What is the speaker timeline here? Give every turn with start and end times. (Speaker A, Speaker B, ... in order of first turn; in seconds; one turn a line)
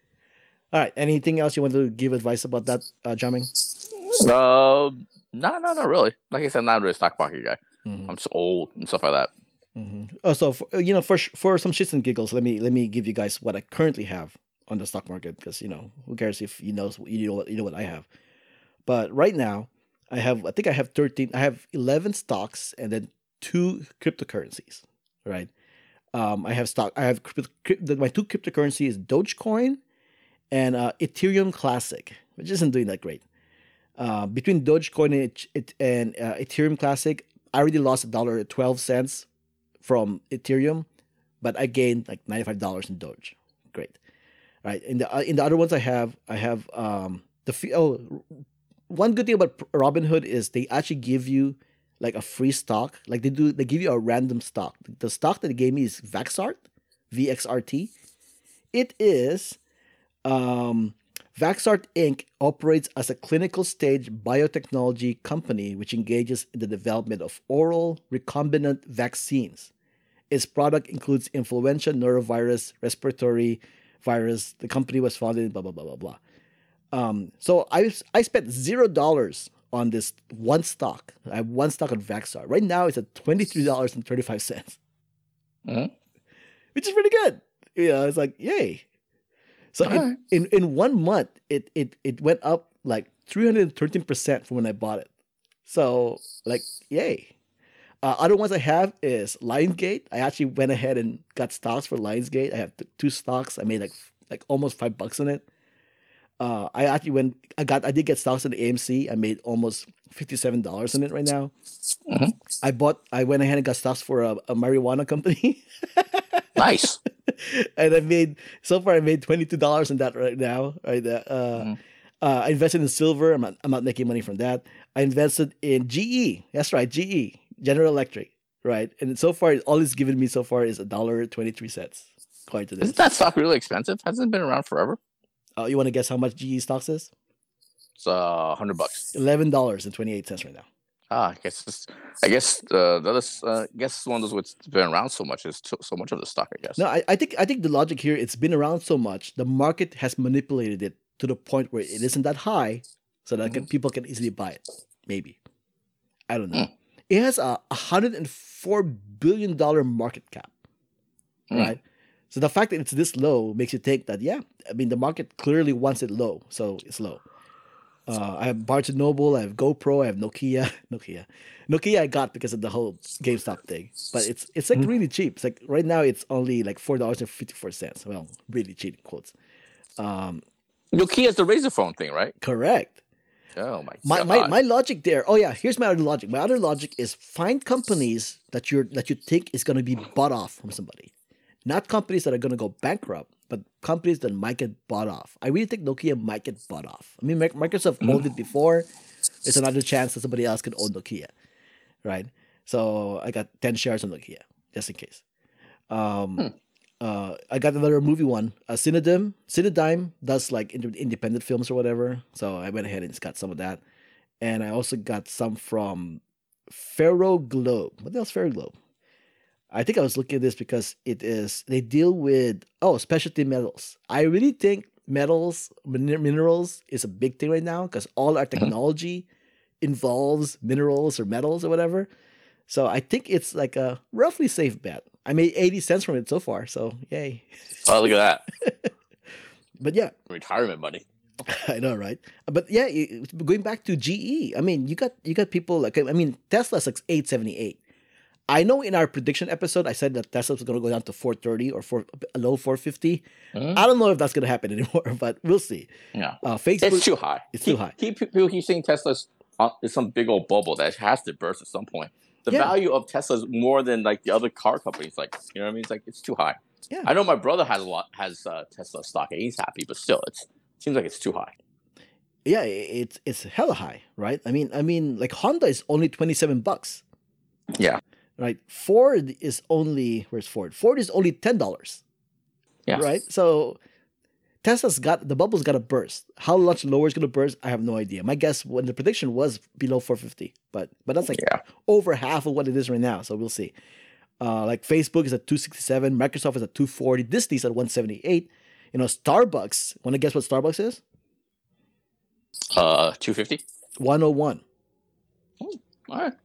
Speaker A: 0.7-3.5
Speaker B: 4.0-9.3
Speaker A: 7.9-8.1
Speaker A: 9.8-18.1
Speaker A: 18.9-25.5
Speaker A: 26.1-29.8
Speaker A: 30.5-33.2
Speaker A: 34.0-39.3
Speaker A: 39.8-40.9
Speaker A: 41.4-44.0
Speaker A: 44.6-56.6
Speaker A: 57.1-57.9
Speaker A: 58.7-59.6
Speaker A: 60.2-69.7
Speaker A: 70.3-76.2
Speaker A: 76.9-84.8
Speaker B: 85.7-85.9
Speaker A: 86.8-88.8
Speaker A: 89.7-95.1
Speaker B: 89.8-90.2
Speaker A: 95.7-97.3
Speaker A: 98.0-105.4
Speaker A: 106.4-111.5
Speaker B: 112.1-112.4
Speaker A: 112.6-133.0
Speaker B: 116.6-117.0
Speaker B: 132.8-135.0
Speaker A: 135.6-137.1
Speaker B: 138.0-139.1
Speaker A: 139.1-140.6
Speaker B: 141.1-146.8
Speaker A: 146.8-155.4
Speaker A: 156.3-160.5
Speaker B: 161.5-161.8
Speaker A: 161.5-167.2
Speaker A: 168.1-179.3
Speaker A: 180.0-180.4
Speaker B: 180.9-182.3
Speaker A: 182.4-183.0
Speaker B: 183.6-184.5
Speaker A: 184.0-191.1
Speaker A: 191.7-198.9
Speaker A: 199.4-201.3
Speaker A: 202.0-205.2
Speaker A: 205.9-213.8
Speaker A: 214.4-218.8
Speaker A: 219.7-229.2
Speaker A: 229.8-232.1
Speaker A: 232.7-237.9
Speaker B: 237.8-238.4
Speaker A: 238.6-238.9
Speaker A: 239.8-240.1
Speaker B: 240.3-241.0
Speaker A: 241.5-247.8
Speaker A: 248.5-255.9
Speaker B: 253.5-253.8
Speaker B: 256.1-271.5
Speaker A: 256.4-258.0
Speaker A: 262.5-262.8
Speaker A: 272.5-277.0
Speaker B: 277.8-278.0
Speaker A: 278.4-282.0
Speaker A: 282.9-283.8
Speaker A: 284.6-293.7
Speaker B: 291.3-291.6
Speaker A: 294.4-301.0
Speaker B: 302.7-303.6
Speaker A: 304.0-304.6
Speaker B: 305.6-306.3